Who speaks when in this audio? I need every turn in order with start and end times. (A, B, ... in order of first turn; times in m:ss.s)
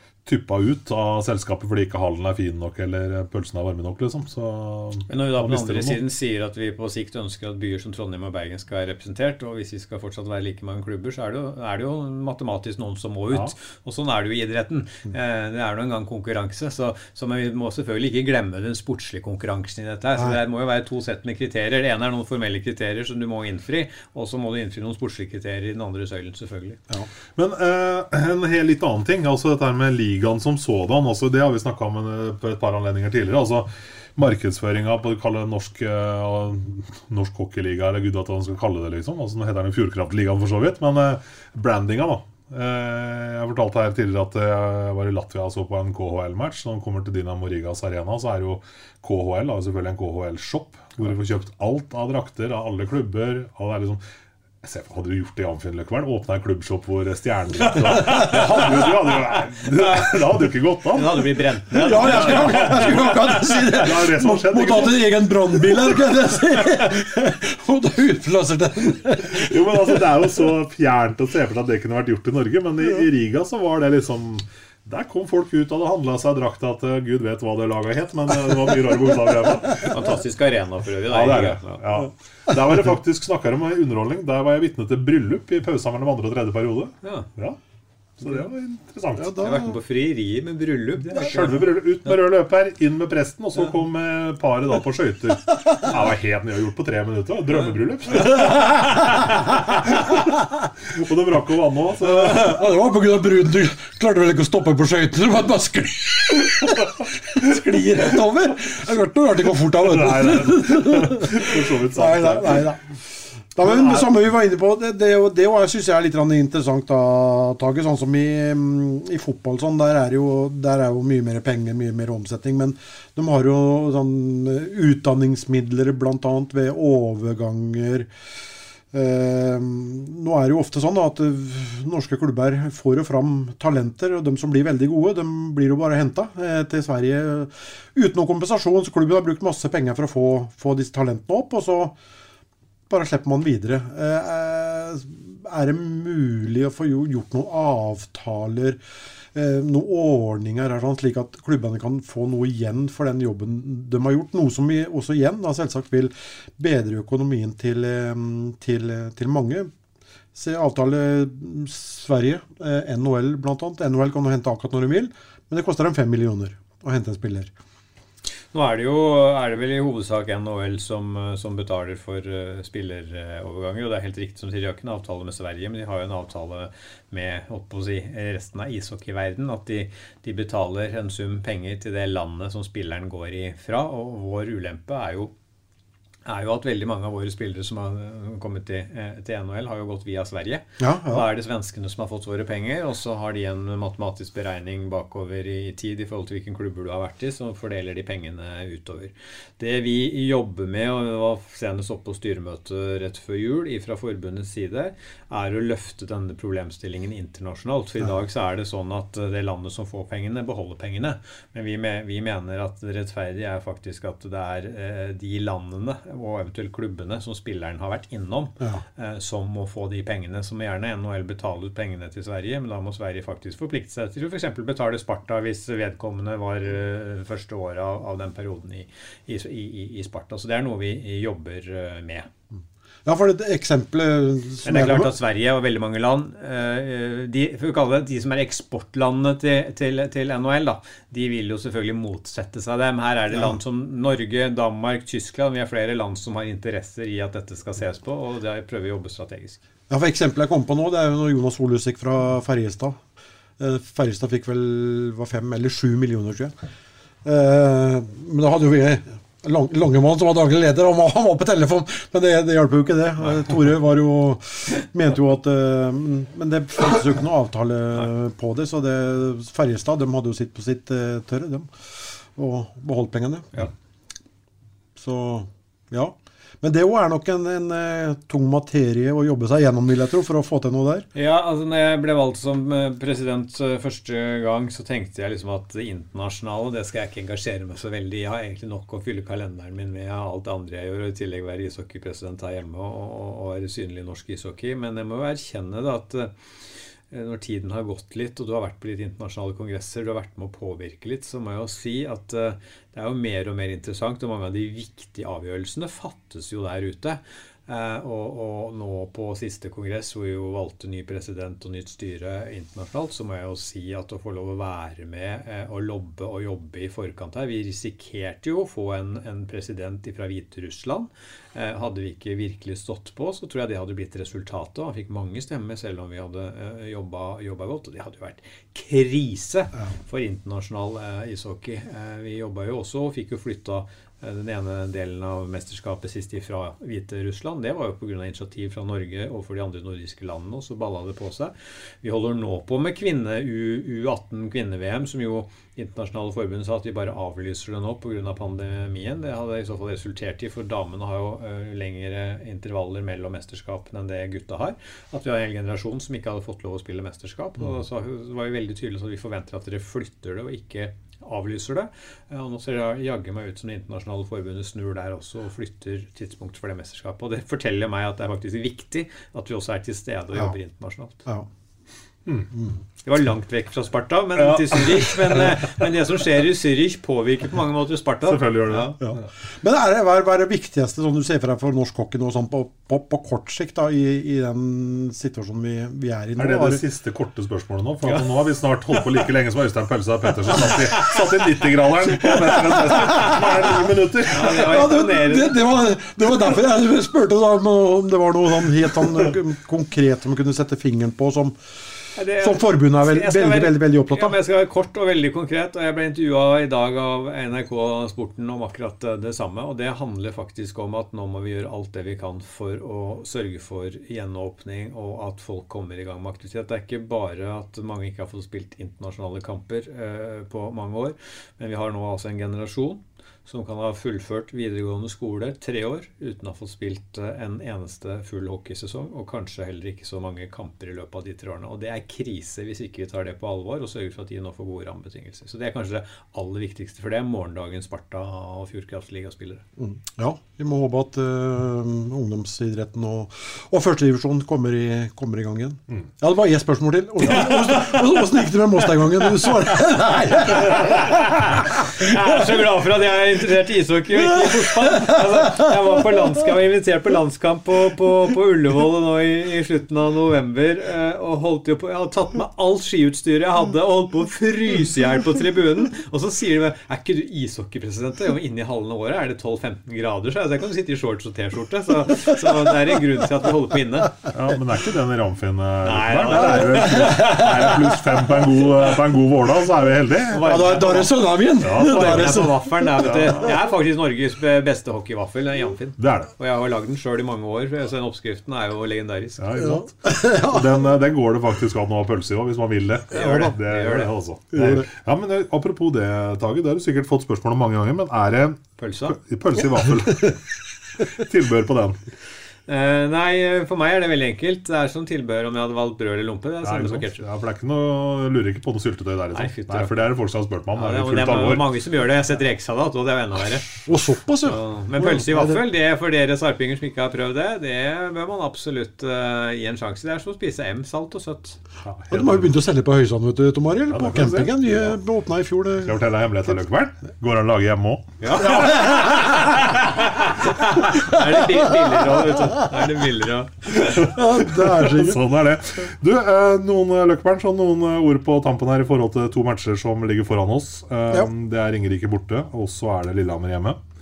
0:00.2-0:06.0 A
0:05.1-0:26.8 B
0:27.4-0:54.0 A
0:54.6-1:01.3 A
0:57.6-0:59.1 C
0:59.7-1:00.1 B
1:00.9-1:03.5 B
1:01.8-1:10.2 C
1:01.8-1:05.2 A
1:09.3-1:19.9 A
1:19.9-1:21.8 B
1:21.1-1:27.6 A
1:27.0-1:27.3 B
1:28.2-1:29.4 A
1:29.2-1:29.8 C
1:29.4-1:31.7 B
1:31.1-1:39.1 A
1:38.3-1:39.0 C
1:39.8-1:40.2 A
1:40.9-1:42.6 A
1:42.0-1:52.8 C
1:49.8-1:52.7 A
1:53.5-2:08.1 C
2:08.9-2:22.0 C
2:22.9-2:28.8 C
2:29.3-2:39.7 C
2:40.3-2:47.5 C
2:48.5-3:05.3 B
3:06.3-3:52.3 B
3:10.8-3:11.3 C
3:53.0-3:55.1 C
3:54.6-4:09.6 B
4:03.3-4:03.6 C
4:09.9-4:13.0 C
4:13.6-4:16.6 C
4:17.2-4:33.6 C
4:35.0-4:41.1 C
4:41.1-4:56.3 B
4:57.1-6:11.2 B
6:12.5-6:12.8 C
6:13.0-6:19.0 B
6:14.4-6:15.5 A
6:18.3-6:19.2 A
6:19.0-6:26.8 C
6:26.4-6:34.8 A
6:32.3-6:33.4 C
6:34.3-6:35.6 B
6:34.4-6:41.6 C
6:42.2-7:19.6 B
6:42.4-6:44.4 C
7:19.8-7:31.3 C
7:27.3-7:28.0 B
7:30.7-7:54.2 B
7:34.3-7:35.2 C
7:54.3-8:00.5 A
7:55.8-7:57.0 B
7:56.9-7:57.8 C
8:00.3-8:09.4 B
8:00.4-8:03.0 C
8:01.6-8:02.4 A
8:03.0-8:03.5 A
8:06.0-8:06.3 A
8:09.4-8:20.4 A
8:09.6-8:10.7 C
8:13.1-8:14.1 B
8:14.5-8:14.8 C
8:18.8-8:19.2 B
8:21.0-8:22.0 A
8:22.7-8:27.2 B
8:26.6-8:31.7 A
8:29.3-8:30.0 B
8:30.7-8:33.7 B
8:33.8-8:35.6 C
8:34.4-8:41.6 B
8:41.8-8:42.5 A
8:42.1-8:46.0 C
8:43.9-8:45.0 A
8:45.8-8:48.8 A
8:48.2-8:49.0 B
8:48.4-8:49.4 C
8:50.3-8:53.9 B
8:53.8-9:03.8 A
8:54.0-8:55.2 C